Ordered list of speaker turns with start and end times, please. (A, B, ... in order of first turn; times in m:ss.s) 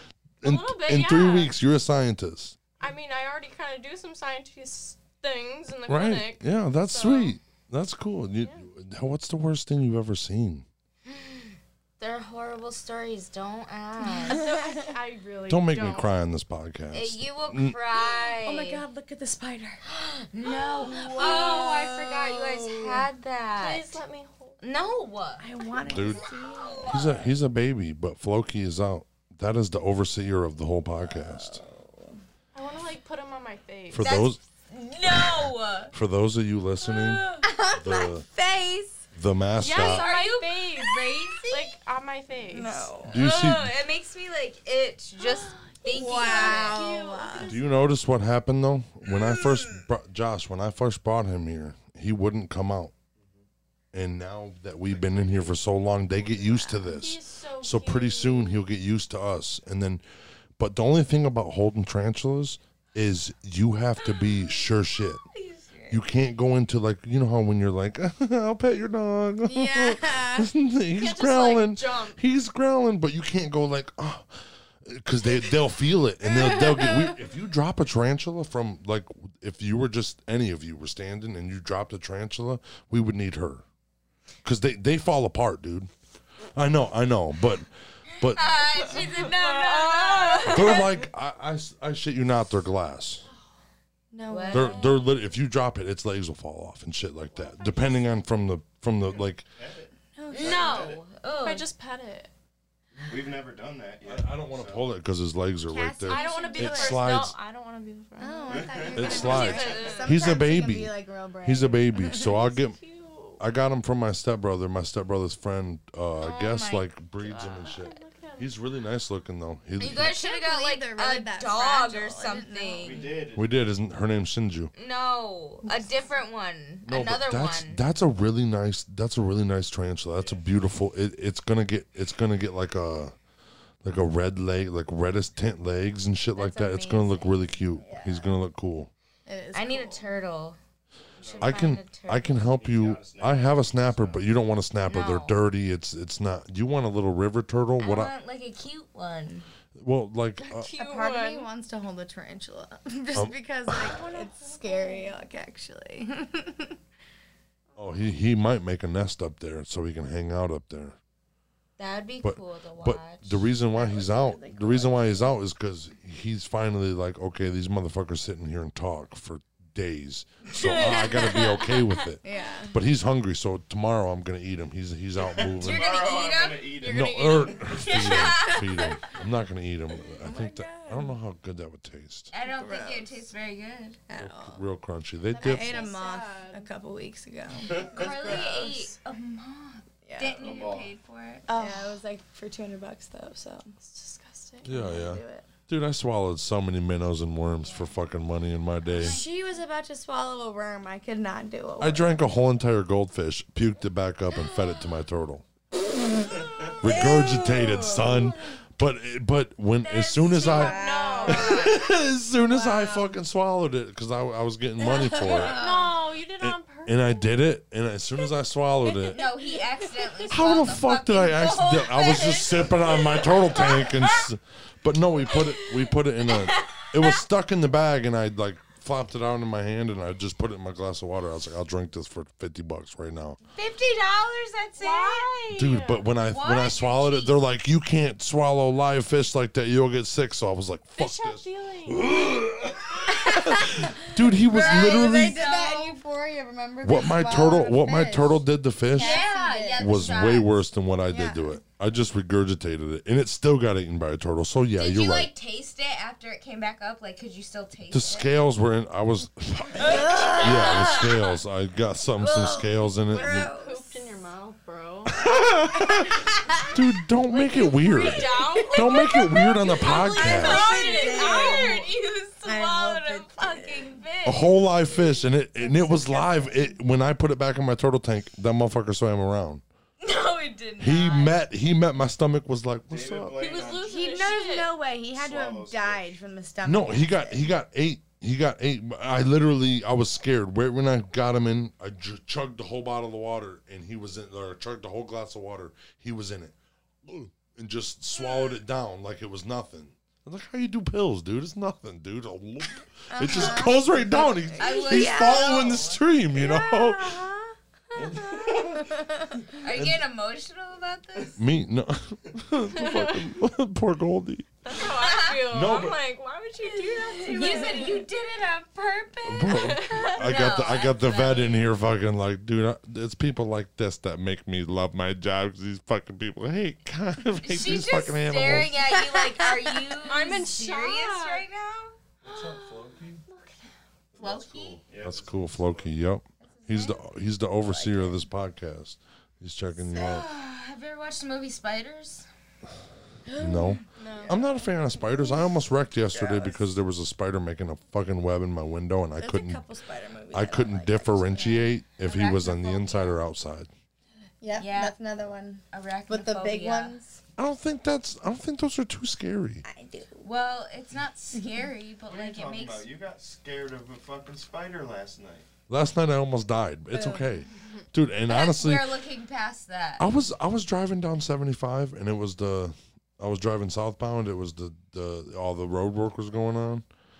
0:00.4-0:02.6 A
0:00.4-0:01.6 B
0:02.8-0:07.4 B
0:05.9-0:10.6 A
0:08.4-0:08.7 B
0:11.0-0:14.5 C
0:14.2-0:16.1 B
0:14.2-0:14.9 D
0:15.5-0:17.8 A
0:16.9-0:18.8 C
0:18.4-0:19.8 D
0:19.8-0:23.9 C
0:20.7-0:23.0 D
0:20.9-0:21.5 B
0:23.6-0:24.6 B
0:24.6-0:25.5 C
0:25.4-0:27.1 D
0:25.9-0:26.2 A
0:26.0-0:27.2 C
0:26.8-0:31.6 A
0:31.0-0:32.2 D
0:32.5-0:34.3 B
0:33.9-0:34.4 A
0:34.0-0:35.9 C
0:35.1-0:38.2 A
0:36.9-0:37.4 C
0:37.4-0:39.0 D
0:39.1-0:40.1 A
0:39.6-0:42.9 B
0:39.7-0:41.7 C
0:42.4-0:43.1 D
0:43.1-0:43.7 A
0:43.1-0:46.9 C
0:45.2-0:47.6 B
0:45.9-0:47.6 D
0:47.4-0:52.9 A
0:53.9-1:00.0 A
0:55.0-0:55.5 E
0:56.3-0:56.9 D
0:56.8-0:58.6 B
1:00.6-1:05.2 A
1:04.3-1:06.0 C
1:05.9-1:23.6 A
1:09.4-1:10.5 D
1:10.9-1:12.2 B
1:24.4-1:25.9 A
1:26.5-1:27.7 A
1:28.2-1:28.6 A
1:28.2-1:30.9 C
1:29.0-1:30.9 B
1:30.4-1:33.2 A
1:34.1-1:34.9 D
1:34.3-1:35.0 C
1:34.5-1:39.4 A
1:37.4-1:38.0 B
1:39.0-1:41.0 E
1:40.2-1:40.9 D
1:40.3-1:41.7 C
1:41.4-1:42.3 B
1:43.0-1:44.9 E
1:44.0-1:47.3 A
1:45.7-1:47.0 D
1:46.0-1:50.1 B
1:48.2-1:52.3 D
1:48.5-1:50.0 E
1:48.9-1:52.8 A
1:49.2-1:50.1 C
1:52.1-1:53.4 B
1:53.4-2:00.1 A
1:56.2-1:56.9 C
1:57.3-1:58.5 B
1:59.8-2:03.1 C
1:59.9-2:03.1 D
2:02.8-2:03.6 E
2:03.3-2:04.7 A
2:04.7-2:07.8 C
2:06.8-2:13.1 A
2:10.2-2:10.4 E
2:13.8-2:18.9 A
2:16.4-2:17.6 C
2:17.8-2:18.4 D
2:19.2-2:20.0 D
2:19.5-2:20.6 C
2:21.2-2:21.8 E
2:21.2-2:22.3 C
2:21.4-2:28.1 A
2:22.3-2:24.3 E
2:24.8-2:25.4 C
2:27.8-2:29.5 C
2:29.7-2:30.7 A
2:30.4-2:31.5 B
2:30.8-2:36.8 D
2:33.1-2:33.9 A
2:33.7-2:35.1 B
2:37.8-2:41.0 A
2:41.8-2:43.4 C
2:42.2-2:55.9 A
2:43.7-2:45.3 D
2:50.5-2:52.0 C
2:52.2-2:52.8 D
2:55.2-2:57.6 E
2:55.6-2:56.8 C
2:56.8-2:58.5 B
2:56.8-3:02.3 A
2:57.7-2:58.8 C
3:00.2-3:01.1 D
3:02.3-3:04.0 C
3:02.4-3:03.1 D
3:04.1-3:04.6 D
3:04.2-3:05.9 A
3:05.3-3:06.7 B
3:05.4-3:08.5 D
3:07.6-3:08.6 E
3:07.8-3:11.5 C
3:08.0-3:08.9 B
3:10.0-3:10.4 D
3:10.4-3:10.9 E
3:11.5-3:13.7 D
3:13.8-3:14.9 B
3:14.6-3:19.2 A
3:14.6-3:15.5 D
3:17.6-3:18.0 C
3:18.8-3:19.4 C
3:19.0-3:22.2 D
3:21.8-3:25.4 A
3:26.8-3:28.5 D
3:26.8-3:35.6 A
3:30.0-3:31.8 B
3:30.3-3:31.7 D
3:30.8-3:31.8 C
3:32.6-3:33.0 B
3:34.8-3:35.9 D
3:35.2-3:37.3 B
3:36.4-3:39.2 A
3:39.1-3:44.2 C
3:40.3-3:53.4 A
3:45.3-3:47.2 C
3:53.5-3:55.7 C
3:54.8-3:56.1 B
3:55.5-4:05.4 A
3:56.3-3:57.4 C
4:01.0-4:02.3 B
4:03.1-4:10.0 D
4:04.5-4:06.0 C
4:06.8-4:09.2 A
4:08.9-4:10.6 C
4:09.8-4:15.3 A
4:11.1-4:11.6 D
4:14.8-4:18.3 C
4:17.9-4:23.5 A
4:19.8-4:21.2 D
4:19.8-4:21.1 C
4:22.2-4:24.0 D
4:22.3-4:22.6 C
4:23.1-4:25.2 B
4:25.1-4:30.7 A
4:27.3-4:31.9 B
4:29.9-4:34.5 C
4:30.2-4:31.9 D
4:32.4-4:34.0 D
4:34.2-4:39.6 A
4:35.6-4:36.7 D
4:40.0-4:41.4 C
4:40.8-4:43.4 A
4:42.9-4:44.0 E
4:43.4-4:44.7 B
4:43.8-4:47.5 D
4:45.1-4:46.1 E
4:46.6-5:07.2 A
5:03.1-5:05.6 D
5:04.6-5:06.0 C
5:08.0-5:08.8 A
5:08.4-5:09.4 D
5:09.6-5:11.4 C
5:09.6-5:10.0 A
5:11.4-5:14.8 A
5:12.8-5:13.2 B
5:14.6-5:18.0 B
5:14.8-5:15.5 C
5:15.5-5:16.0 A
5:16.7-5:21.6 C
5:19.2-5:28.8 A
5:19.5-5:20.3 B
5:27.4-5:32.0 C
5:29.0-5:29.8 D
5:30.0-5:31.4 B
5:32.2-5:33.2 A
5:32.2-5:33.7 B
5:34.2-5:34.8 C
5:34.2-5:35.9 E
5:35.0-5:40.3 A
5:36.5-5:37.0 C
5:37.6-5:38.2 D
5:39.8-5:42.2 C
5:43.3-5:44.4 D
5:43.4-5:49.6 A
5:44.0-5:44.4 B
5:45.0-5:45.5 D
5:46.0-5:46.6 D
5:49.2-5:51.6 D
5:50.3-5:53.7 A
5:51.4-5:53.2 C
5:54.4-5:57.2 D
5:54.6-5:54.9 C
5:55.7-5:57.0 C
5:57.4-5:59.6 A
5:59.6-6:00.2 D
6:00.2-6:02.9 C
6:02.1-6:05.5 E
6:05.7-6:08.9 A
6:06.9-6:07.3 D
6:08.3-6:10.1 C
6:10.0-6:16.8 A